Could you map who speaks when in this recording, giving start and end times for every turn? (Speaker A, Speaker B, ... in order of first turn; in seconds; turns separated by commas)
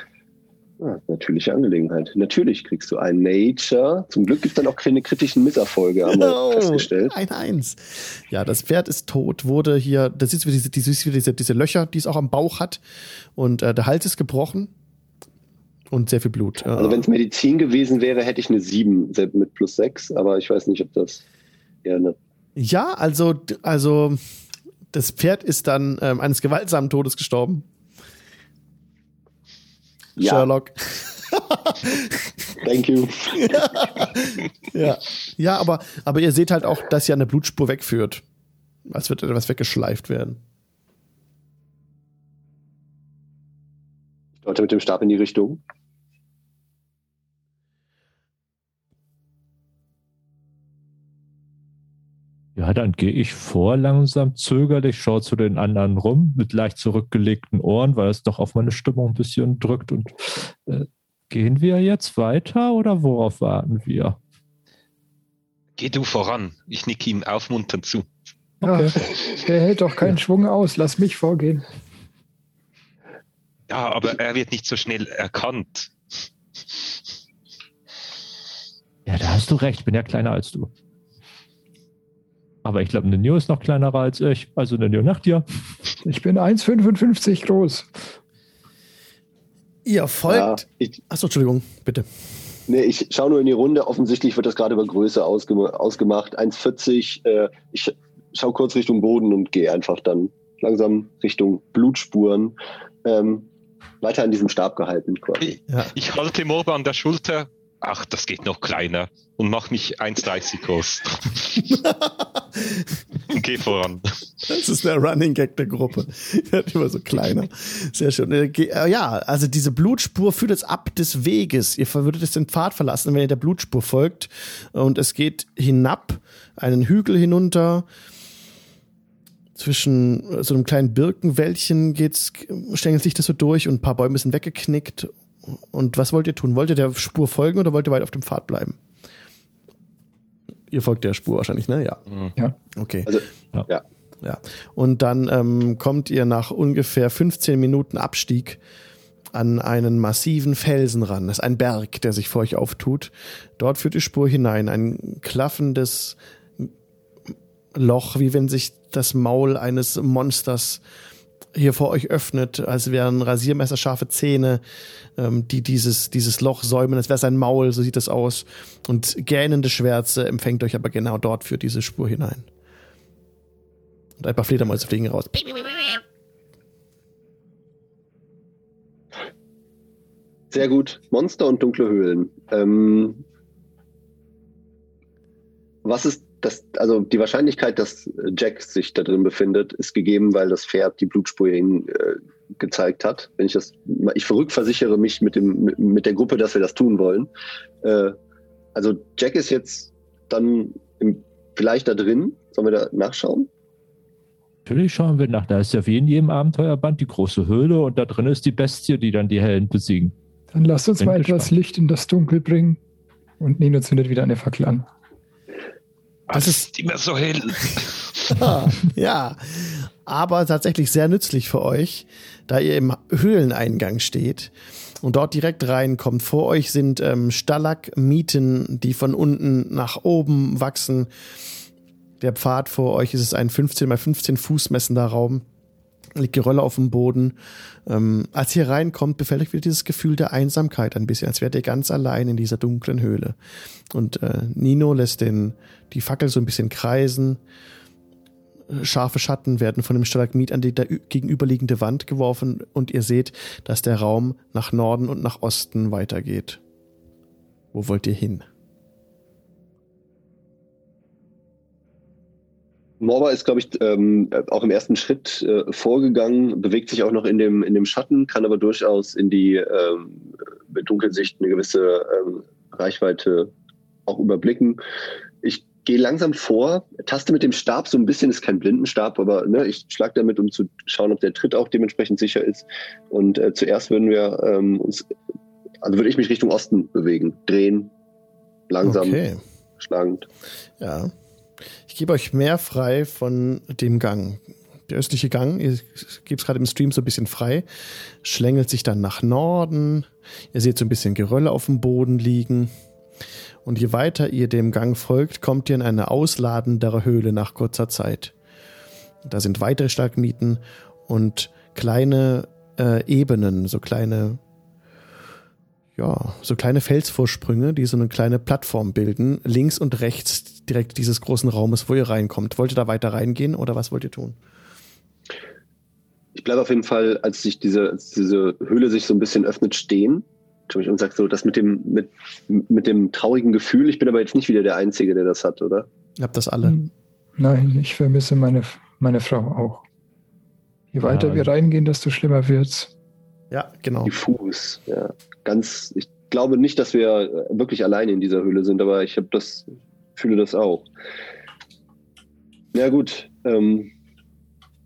Speaker A: 0.8-7.1, Speaker B: 6.1-12.8, Speaker B: 13.3-14.7, Speaker B: 15.9-17.1, Speaker A: 16.7-21.2, Speaker A: 21.8-22.1, Speaker B: 22.6-24.2, Speaker B: 24.9-27.6, Speaker A: 30.2-30.5, Speaker B: 30.2-32.3, Speaker A: 32.6-33.9, Speaker B: 33.4-38.2, Speaker B: 38.9-40.4, Speaker A: 44.4-45.6, Speaker C: 52.5-64.2, Speaker D: 65.8-68.0, Speaker E: 68.6-71.7, Speaker D: 73.7-75.9, Speaker C: 79.0-80.7, Speaker C: 82.6-85.4, Speaker E: 86.0-87.9, Speaker B: 89.8-92.0, Speaker A: 90.3-91.0, Speaker A: 92.7-103.5, Speaker A: 104.0-105.5, Speaker D: 105.4-111.6, Speaker B: 112.5-112.8, Speaker D: 113.3-114.1, Speaker B: 114.5-127.8, Speaker B: 129.6-138.8, Speaker B: 140.7-142.0, Speaker B: 142.8-143.1, Speaker A: 143.1-143.8, Speaker B: 144.2-148.6, Speaker B: 149.3-156.7, Speaker B: 157.7-160.8, Speaker B: 161.5-164.6, Speaker B: 165.2-172.4, Speaker B: 174.2-176.0, Speaker A: 180.5-183.2, Speaker A: 185.8-197.3, Speaker A: 197.8-198.2, Speaker A: 198.7-203.5, Speaker C: 204.6-210.1, Speaker E: 210.5-212.8, Speaker C: 211.0-211.5, Speaker E: 213.4-214.8, Speaker D: 216.3-218.5, Speaker B: 216.3-216.6, Speaker B: 218.3-224.5, Speaker B: 225.0-231.1, Speaker B: 232.2-235.4, Speaker B: 236.2-237.3, Speaker B: 237.9-243.3, Speaker B: 243.9-247.4, Speaker B: 248.7-256.6, Speaker B: 257.7-258.4, Speaker A: 263.0-273.5, Speaker A: 274.1-274.8, Speaker A: 275.4-285.1, Speaker A: 285.8-287.9, Speaker A: 288.7-289.2, Speaker B: 288.8-289.4, Speaker A: 289.8-290.3, Speaker B: 290.8-291.1, Speaker B: 291.9-297.6, Speaker B: 298.2-302.7, Speaker B: 303.6-308.3, Speaker B: 309.2-314.4, Speaker B: 316.0-324.4, Speaker A: 326.4-335.9, Speaker B: 336.2-336.8, Speaker E: 336.6-339.8, Speaker E: 340.9-342.9, Speaker C: 341.0-341.5, Speaker B: 343.5-344.1, Speaker A: 344.1-350.9, Speaker A: 352.7-353.9